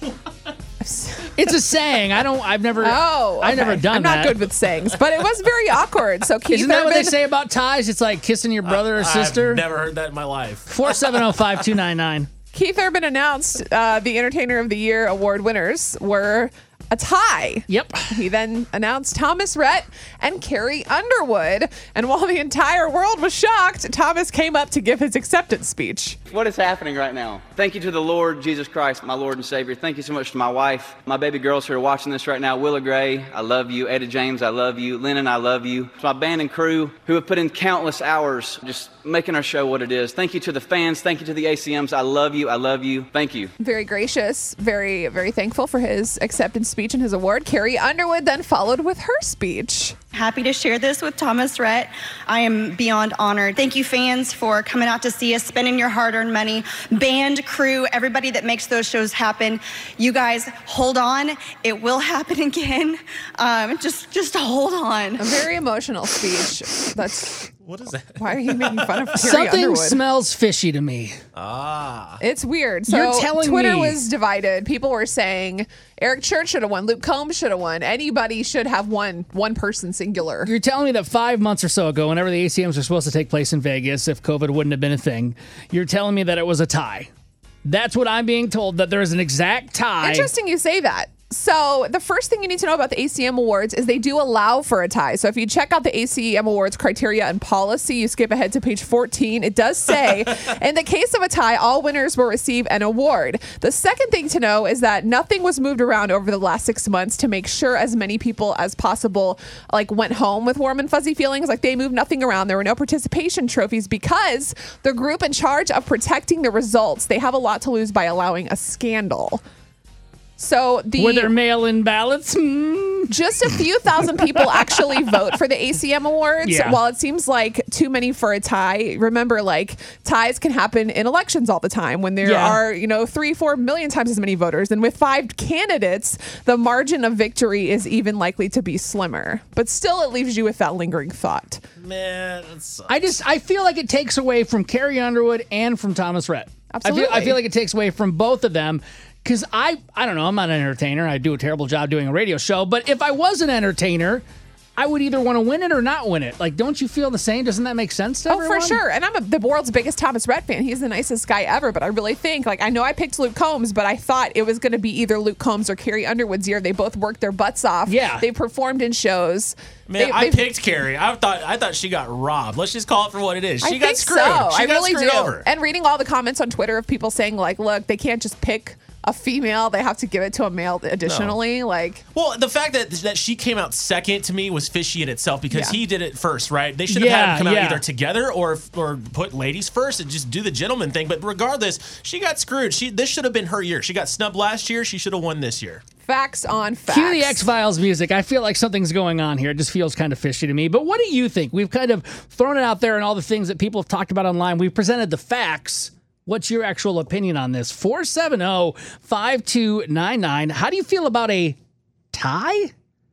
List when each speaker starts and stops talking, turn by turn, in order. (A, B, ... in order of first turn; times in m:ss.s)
0:00.8-0:01.3 A
0:01.3-0:04.4 B
0:02.8-0:07.2 A
0:06.5-0:09.6 B
0:08.9-0:11.2 C
0:10.7-0:12.3 B
0:12.5-0:26.2 A
0:17.7-0:18.1 B
0:26.3-0:43.5 D
0:43.6-0:50.0 A
0:50.1-1:05.3 E
1:05.2-1:07.5 A
1:07.6-1:09.1 C
1:08.2-1:10.0 A
1:09.1-1:11.2 B
1:11.4-1:12.2 C
1:12.2-1:20.5 A
1:12.9-1:14.0 B
1:20.4-1:27.1 B
1:27.6-1:30.3 B
1:30.0-1:59.4 A
2:00.4-2:01.3 A
2:01.0-2:03.1 B
2:03.1-2:21.6 A
2:06.4-2:06.8 B
2:12.2-2:12.6 B
2:21.8-2:22.9 C
2:22.9-2:34.2 B
2:26.7-2:27.4 A
2:34.8-2:38.8 B
2:38.3-2:50.5 A
2:47.8-2:48.2 B
2:49.9-2:55.5 C
2:53.6-3:02.0 A
3:01.0-3:01.4 C
3:02.1-3:15.8 C
3:05.5-3:05.8 A
3:06.9-3:07.8 B
3:16.0-3:17.4 A
3:16.9-3:31.6 B
3:32.1-3:32.7 B